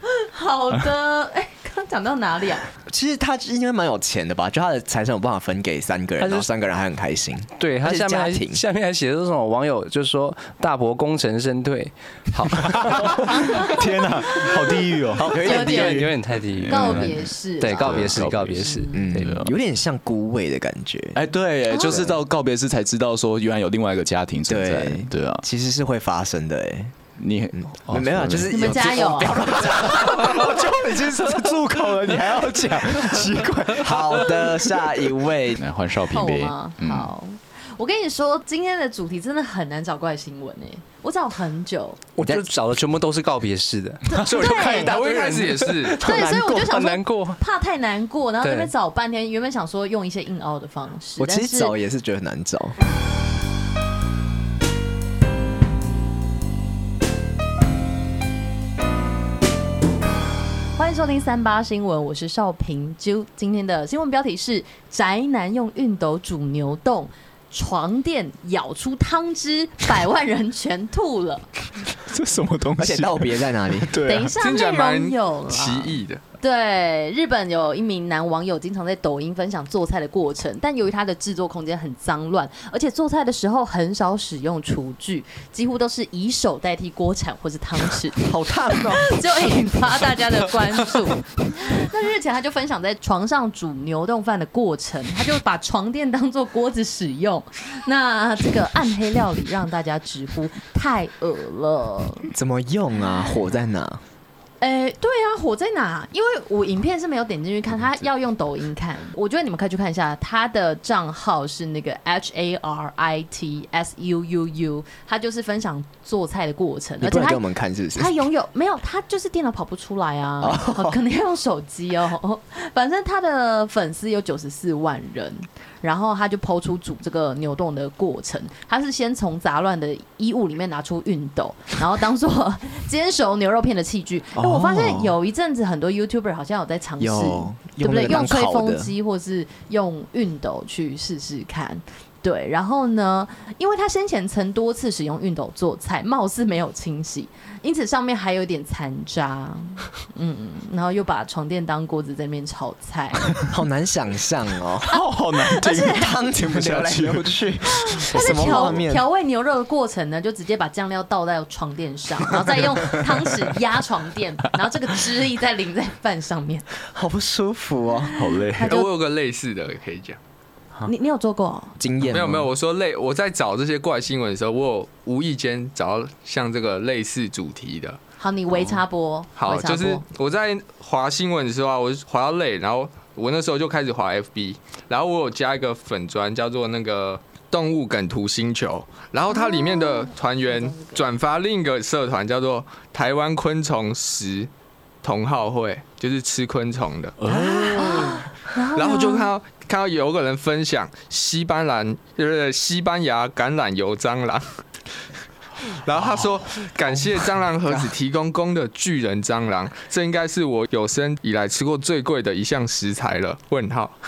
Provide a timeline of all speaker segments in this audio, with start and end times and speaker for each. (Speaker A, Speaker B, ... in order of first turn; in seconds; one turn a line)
Speaker A: 0.2-2.6
Speaker B: 2.9-8.6
Speaker C: 6.2-6.5
Speaker C: 7.6-13.3
Speaker D: 12.8-15.4
Speaker B: 15.2-16.1
Speaker C: 15.3-19.4
Speaker A: 15.4-16.1
Speaker D: 16.6-19.5
Speaker A: 16.7-19.0
Speaker B: 18.9-21.2
Speaker D: 21.1-25.4
Speaker A: 21.7-22.0
Speaker B: 21.9-22.1
Speaker B: 24.5-27.0
Speaker D: 27.2-34.6
Speaker B: 27.6-30.8
Speaker A: 28.5-29.4
Speaker B: 33.7-35.6
Speaker D: 35.6-37.1
Speaker A: 36.1-42.0
Speaker C: 42.2-47.4
Speaker A: 44.0-45.0
Speaker E: 44.5-46.0
Speaker B: 46.0-46.8
Speaker A: 46.0-51.8
Speaker C: 48.4-48.7
Speaker B: 51.2-52.8
Speaker A: 60.8-71.5
Speaker D: 72.0-74.4
Speaker B: 72.8-74.0
Speaker A: 74.0-102.3
Speaker E: 74.4-76.2
Speaker B: 88.2-89.5
Speaker B: 102.3-104.0
Speaker A: 104.6-117.4
Speaker B: 117.0-118.2
Speaker A: 117.9-153.3
Speaker B: 120.4-121.0
Speaker B: 134.4-135.1
Speaker B: 137.0-138.9
Speaker B: 153.4-155.0
Speaker D: 154.9-157.3
Speaker A: 155.3-156.1
Speaker B: 155.7-159.0
Speaker A: 157.7-166.7
Speaker D: 158.0-158.8
Speaker B: 166.9-168.1
Speaker D: 168.1-168.8
Speaker A: 168.4-168.9
Speaker E: 168.6-170.2
Speaker A: 170.8-171.8
Speaker B: 171.8-172.5
Speaker E: 172.1-178.0
Speaker A: 178.2-180.1
Speaker E: 179.4-194.5
Speaker A: 189.3-191.0
Speaker E: 195.0-197.2
Speaker D: 197.2-198.2
Speaker A: 197.3-199.3
Speaker E: 198.7-204.4
Speaker E: 205.7-213.9